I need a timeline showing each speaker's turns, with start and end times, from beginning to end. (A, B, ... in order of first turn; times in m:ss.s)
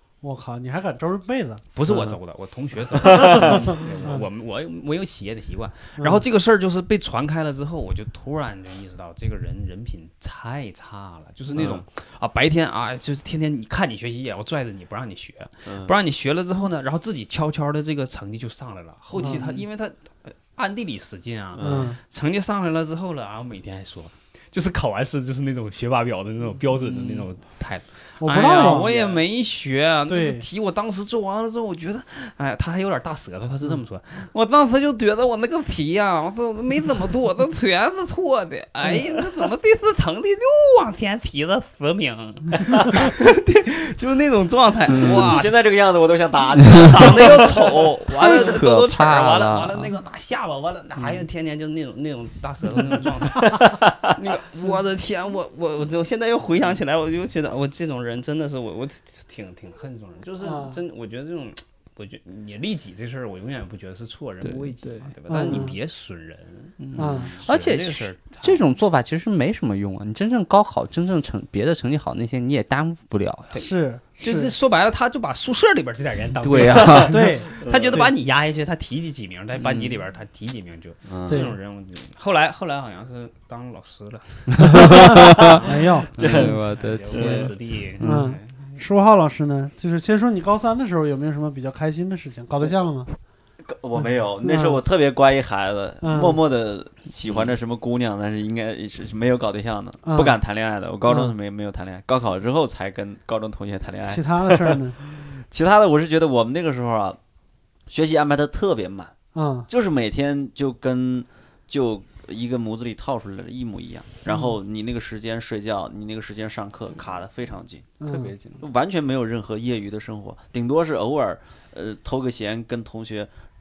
0:00.2-0:01.7 A
0:01.8-0:45.6 B
0:01.9-0:02.2 C
0:03.0-0:03.7 C
0:03.2-0:04.2 A
0:06.0-0:06.2 A
0:11.6-0:11.8 C
0:15.7-0:15.9 C
0:19.2-0:19.5 A
0:21.6-0:21.9 C
0:21.6-0:22.0 A
0:26.9-0:27.3 D
0:28.2-0:28.9 A
0:28.5-0:29.2 C
0:30.1-0:30.4 A
0:42.7-0:43.0 C
0:45.0-0:48.0 C
0:46.7-1:08.6 B
0:48.2-0:49.9 D
0:53.6-0:54.1 C
1:00.4-1:00.8 A
1:04.4-1:05.7 D
1:05.3-1:05.8 A
1:06.8-1:13.6 D
1:07.0-1:07.4 A
1:13.5-1:14.5 A
1:14.2-1:25.7 B
1:16.4-1:17.3 D
1:17.0-1:18.1 A
1:17.6-1:18.0 C
1:19.6-1:20.0 D
1:21.1-1:21.5 C
1:21.3-1:21.5 A
1:24.6-1:25.5 D
1:24.8-1:26.1 A
1:25.4-1:26.6 C
1:26.2-1:28.3 D
1:26.3-1:28.8 B
1:27.1-1:27.5 C
1:28.0-1:33.1 A
1:33.6-1:47.2 C
1:34.0-1:34.8 A
1:36.0-1:36.4 A
1:40.0-1:40.4 A
1:41.1-1:41.4 A
1:44.0-1:45.0 A
1:47.9-1:49.1 C
1:49.3-1:49.7 A
1:49.7-1:57.9 C
1:54.3-1:54.6 A
1:58.0-1:58.3 A
1:58.0-1:58.6 D
1:58.6-2:03.3 C